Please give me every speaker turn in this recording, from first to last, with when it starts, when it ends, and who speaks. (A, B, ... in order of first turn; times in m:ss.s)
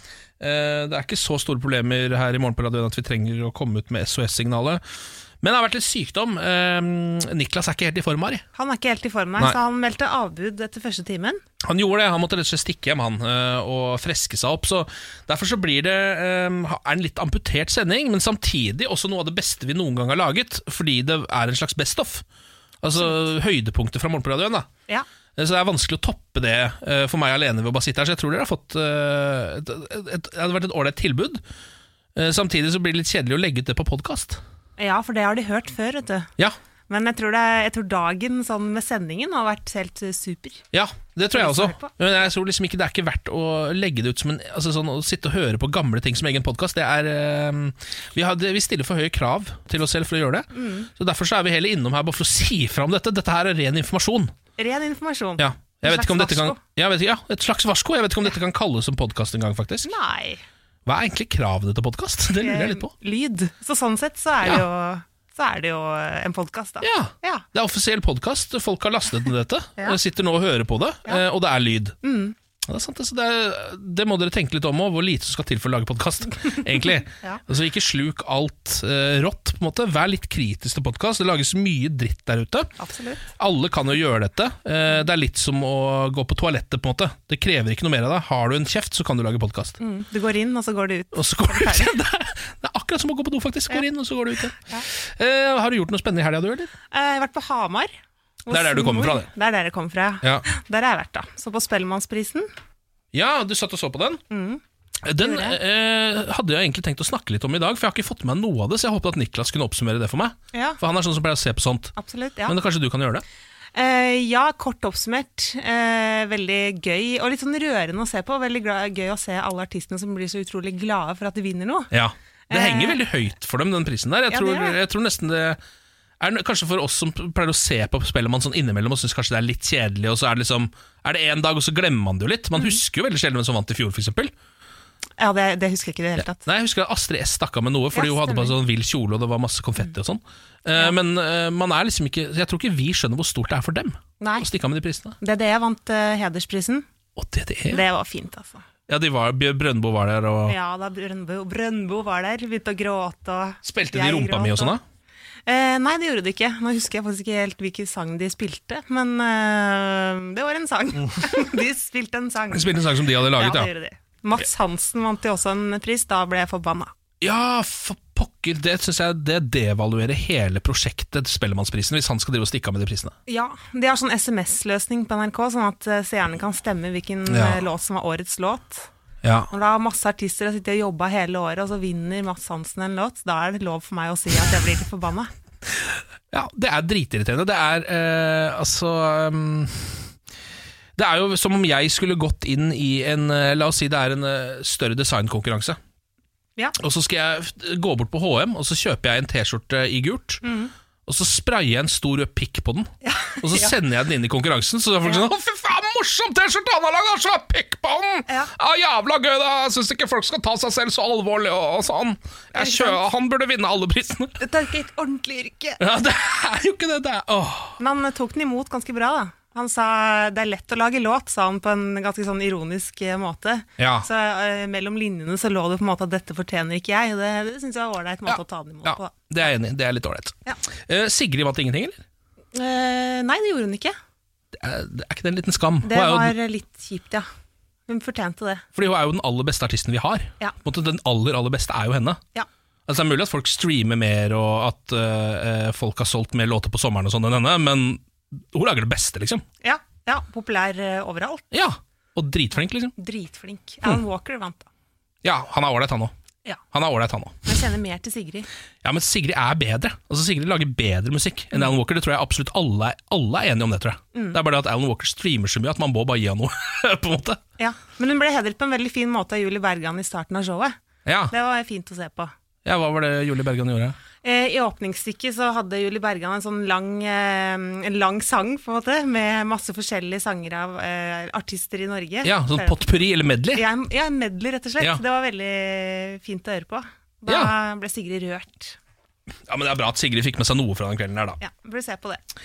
0:00.4-0:04.8 A
0:05.4-0:08.4 A
0:08.5-0:11.4 B
0:11.6-0:22.2 A
0:22.8-0:24.7 A
0:25.4-0:31.4 A
0:32.2-0:34.4 A
0:34.8-0:36.3 B
0:36.9-0:40.6 B
0:40.7-0:54.3 A
0:41.3-0:41.9 B
0:50.5-0:50.9 B
0:54.6-0:56.6 B
0:55.4-0:59.9 A
0:59.8-1:00.4 B
1:00.9-1:02.9 A
1:02.4-1:07.5 B
1:06.8-1:12.0 A
1:12.0-1:12.4 B
1:12.7-1:22.8 A
1:22.8-1:23.2 B
1:23.4-1:29.8 A
1:29.8-1:32.0 B
1:31.1-1:36.7 A
1:34.6-1:34.9 B
1:36.9-1:37.9 B
1:38.5-1:42.5 B
1:38.5-1:39.3 A
1:43.1-1:44.2 A
1:44.3-1:44.6 B
1:45.0-1:53.2 A
1:45.2-1:45.6 B
1:50.5-1:50.8 B
1:52.0-1:52.6 B
1:53.7-2:01.9 B
2:01.9-2:05.6 A
2:02.5-2:03.0 B
2:04.3-2:04.8 B
2:06.2-2:14.3 A
2:15.2-2:16.5 B
2:16.4-2:25.2 A
2:17.9-2:18.6 B
2:24.2-2:24.5 B
2:25.2-2:26.8 B
2:27.2-2:27.8 A
2:27.7-2:28.6 B
2:28.9-2:30.6 A
2:30.5-2:34.8 B
2:33.6-2:34.8 A
2:35.5-2:46.9 B
2:42.5-2:43.7 A
2:47.2-2:53.1 A
2:53.3-2:58.9 B
2:57.3-2:57.6 A
2:59.2-2:59.5 A
2:59.5-3:05.3 B
3:06.3-3:10.0 A
3:11.0-3:15.8 A
3:16.8-3:20.4 A
3:20.4-3:20.7 B
3:21.1-3:22.9 A
3:23.0-3:23.8 B
3:23.4-3:34.4 A
3:32.6-3:33.0 B
3:34.4-3:35.8 B
3:35.8-3:37.8 A
3:37.8-3:49.1 B
3:43.8-3:44.1 A
3:48.3-3:52.0 A
3:52.5-3:53.9 B
3:54.5-3:56.4 A
3:55.8-3:57.2 B
3:57.9-3:58.6 B
3:58.8-4:02.2 A
4:02.9-4:09.4 A
4:09.6-4:11.5 B
4:11.5-4:13.0 A
4:13.0-4:14.7 B
4:15.2-4:16.1 A
4:16.7-4:17.5 A
4:17.4-4:18.5 B
4:18.8-4:27.4 A
4:27.6-4:30.8 B
4:31.1-4:31.3 A
4:31.3-4:32.3 B
4:32.6-4:34.0 A
4:34.2-4:42.8 B
4:42.2-4:43.6 A
4:43.5-4:48.8 B
4:47.3-4:47.5 A
4:49.5-4:51.4 A
4:51.4-4:52.2 B